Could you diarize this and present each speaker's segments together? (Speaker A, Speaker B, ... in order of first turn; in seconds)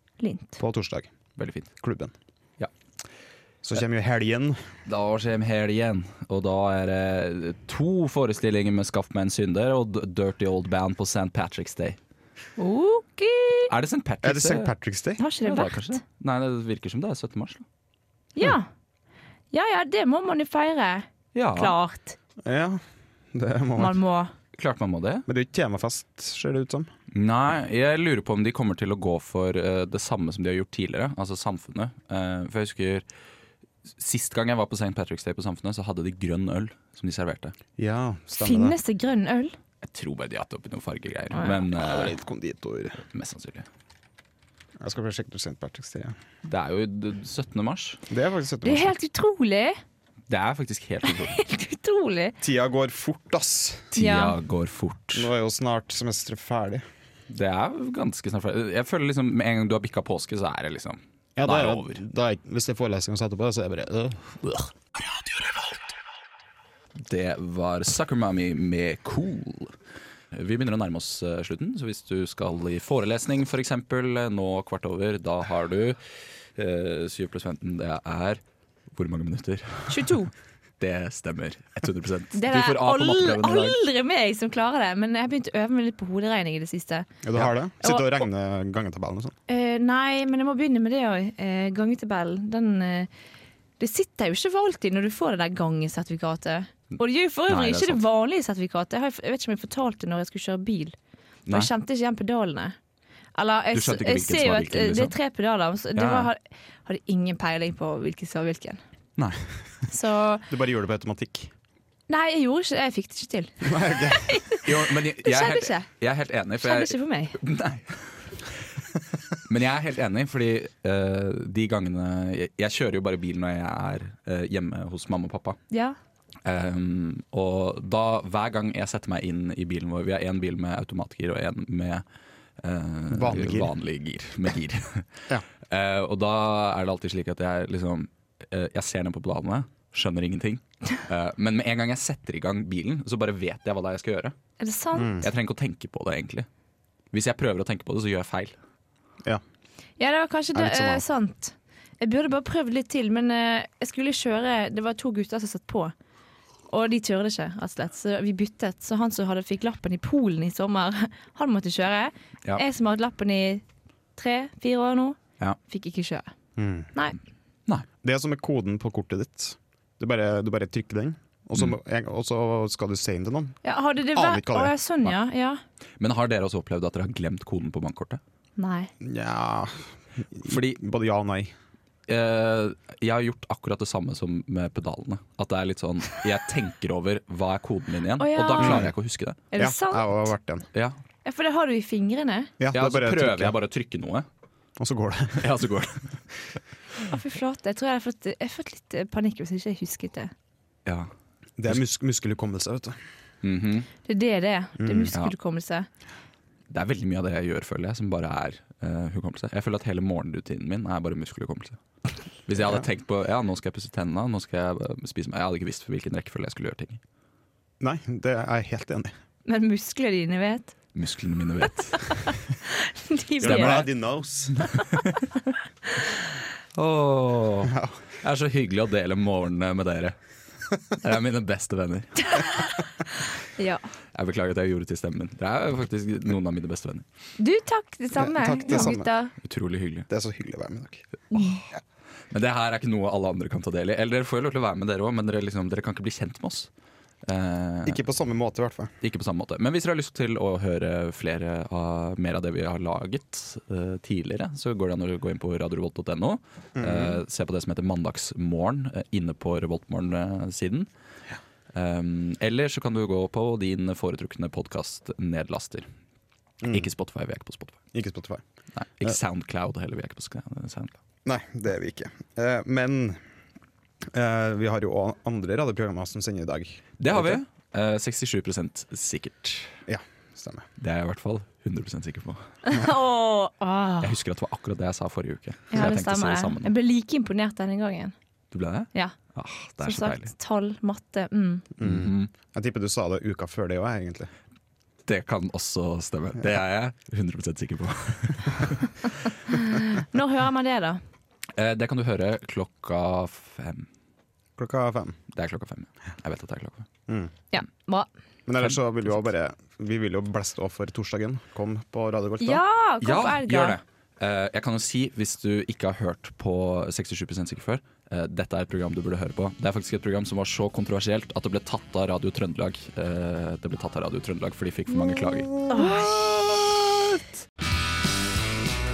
Speaker A: 0.2-0.6, 12.6-13.7, 15.2-16.0, 18.4-18.7, 19.5-22.1, 23.8-24.3, 38.3-39.5, 41.3-41.6, 48.6-49.8, 51.0-52.3, 54.0-54.3, 79.9-80.3, 82.3-87.1, 87.8-88.2, 89.5-93.1, 93.8-101.0, 101.5-102.7, 103.3-108.8, 109.9-110.4, 112.1-115.9, 116.6-117.3, 125.7-126.0, 144.6-145.2, 150.0-155.9, 156.7-163.6, 164.2-166.3, 166.9-167.2, 173.6-175.6, 178.6-178.9, 188.2-188.9, 189.5-190.3, 191.2-192.5, 197.1-200.3, 204.1-205.9, 219.4-220.7, 221.7-223.8, 232.3-232.6, 233.4-233.8, 237.4-239.3, 241.3-241.6, 282.6-284.1, 285.7-288.1, 289.8-291.6, 299.5-301.0, 307.5-308.1, 312.4-313.8, 325.7-326.1
Speaker B: 0.6-1.1, 1.8-2.1, 3.6-4.6, 14.2-15.2, 22.4-22.8, 23.3-24.0, 25.2-26.9, 37.8-38.8, 41.7-43.0, 44.8-46.1, 48.1-49.0, 52.4-53.9, 55.1-56.8, 61.4-64.5, 87.2-89.3, 110.5-111.5, 113.6-114.4, 133.1-133.7, 144.9-145.3, 150.5-151.0, 166.6-166.9, 168.0-174.7, 179.0-181.5, 188.6-188.9, 189.6-190.7, 192.6-193.5, 194.8-195.6, 201.6-203.0, 204.8-205.1, 212.6-212.8, 217.8-219.1, 223.4-224.7, 227.7-228.0, 238.1-239.1, 240.1-241.0, 247.8-248.9, 256.8-257.2, 266.6-266.9, 267.9-268.4, 271.2-273.2, 274.1-277.4, 279.9-280.7, 291.8-294.3, 304.6-305.2, 307.1-307.3, 308.5-312.6
Speaker C: 1.4-1.7, 4.8-12.0, 13.7-14.7, 15.4-17.6, 21.3-21.8, 24.6-25.2, 27.1-33.0, 34.0-37.5, 39.8-42.1, 43.1-43.6, 46.4-48.0, 50.3-51.4, 53.9-55.3, 57.3-62.0, 67.0-69.7, 70.3-76.0, 76.5-78.4, 78.9-80.2, 80.8-83.8, 97.5-98.0, 103.7-105.1, 105.9-106.3, 109.2-109.5, 114.6-118.8, 119.5-125.6, 126.4-132.0, 132.6-144.3, 145.2-146.5, 147.1-148.5, 176.0-178.2, 180.4-180.8, 182.1-189.4, 192.7-194.2, 195.4-196.2, 200.8-201.1, 203.4-203.9, 206.7-211.8, 212.5-217.0, 220.9-222.3, 223.4-223.9, 224.9-225.2, 226.8-230.2, 230.9-232.6, 234.1-237.1, 238.7-240.1, 242.3-246.7, 247.2-248.0, 249.0-260.9, 261.7-265.9, 266.7-267.8, 268.8-271.0, 277.0-279.7, 280.8-282.4, 284.0-286.7, 288.5-290.3, 291.8-292.3, 295.1-299.0, 301.6-303.9, 305.3-306.9, 308.6-309.2, 313.0-327.4